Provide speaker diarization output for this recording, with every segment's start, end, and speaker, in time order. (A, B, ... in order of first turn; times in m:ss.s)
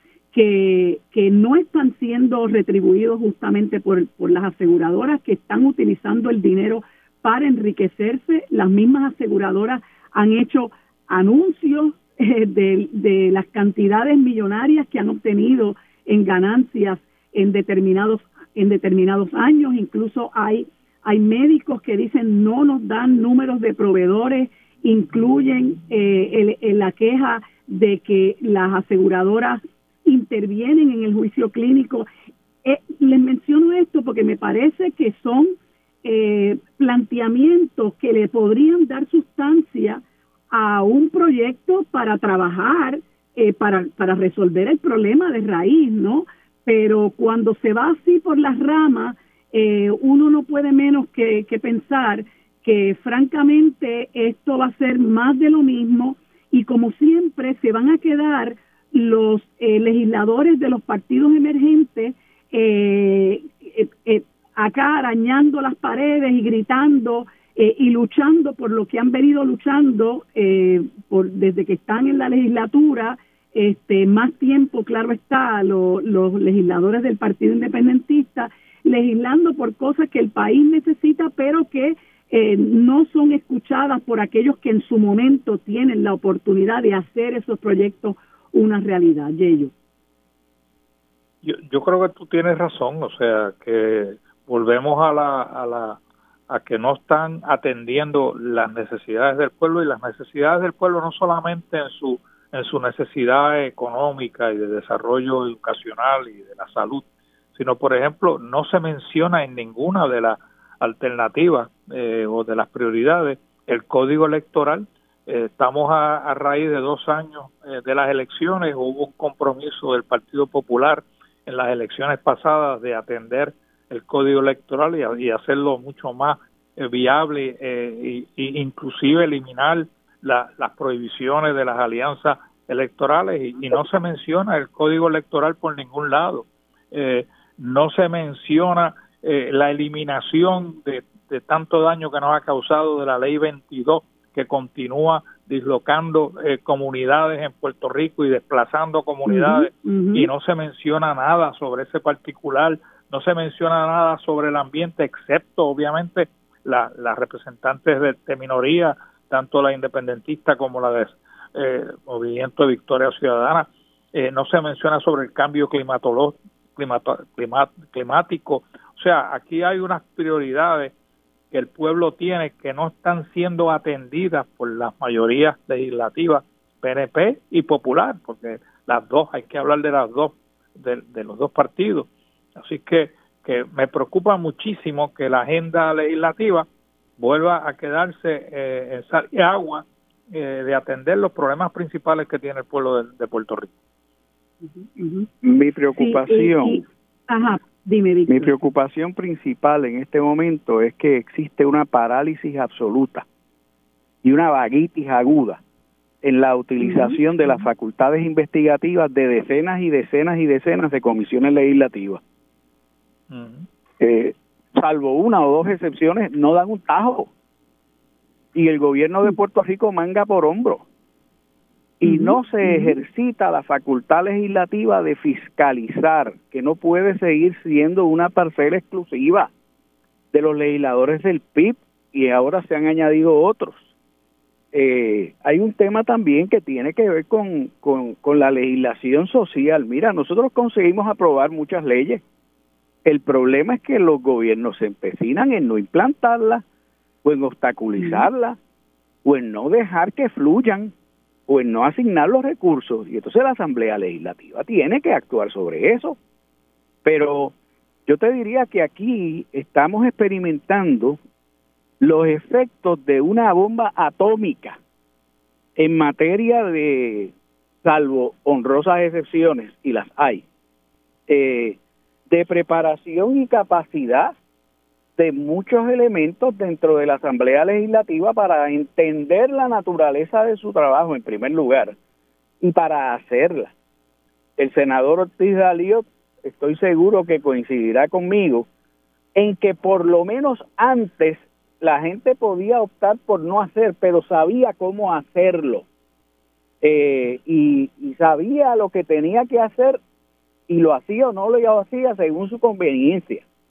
0:00.3-0:32.1 A
0:32.6-1:29.7 A
1:31.4-1:36.0 B
1:36.5-2:50.9 B
2:29.2-2:30.3 A
2:51.5-3:02.1 B
3:02.6-3:06.7 B
3:07.2-3:13.7 B
3:14.6-3:15.3 A
3:15.4-3:16.8 C
3:16.0-3:18.5 A
3:18.3-3:23.2 C
3:24.2-3:25.6 C
3:26.2-3:32.2 C
3:26.8-3:27.6 A
3:33.3-3:33.6 B
3:34.0-3:37.3 C
3:38.5-3:40.8 C
3:42.0-3:49.5 C
3:42.0-3:43.0 A
3:50.3-3:53.9 C
3:54.7-4:02.2 C
4:03.0-4:06.6 C
4:07.2-4:08.6 C
4:08.0-4:08.3 A
4:09.2-4:10.9 C
4:11.5-4:16.2 C
4:17.0-4:17.5 C
4:18.1-4:21.2 C
4:22.0-4:24.8 C
4:25.8-4:27.3 C
4:27.8-4:30.4 C
4:31.3-4:31.8 C
4:32.3-4:34.3 C
4:35.2-4:42.0 C
4:42.6-4:43.7 C
4:44.6-4:48.7 C
4:49.3-4:55.8 C
4:56.8-5:00.0 C
5:00.7-5:03.4 C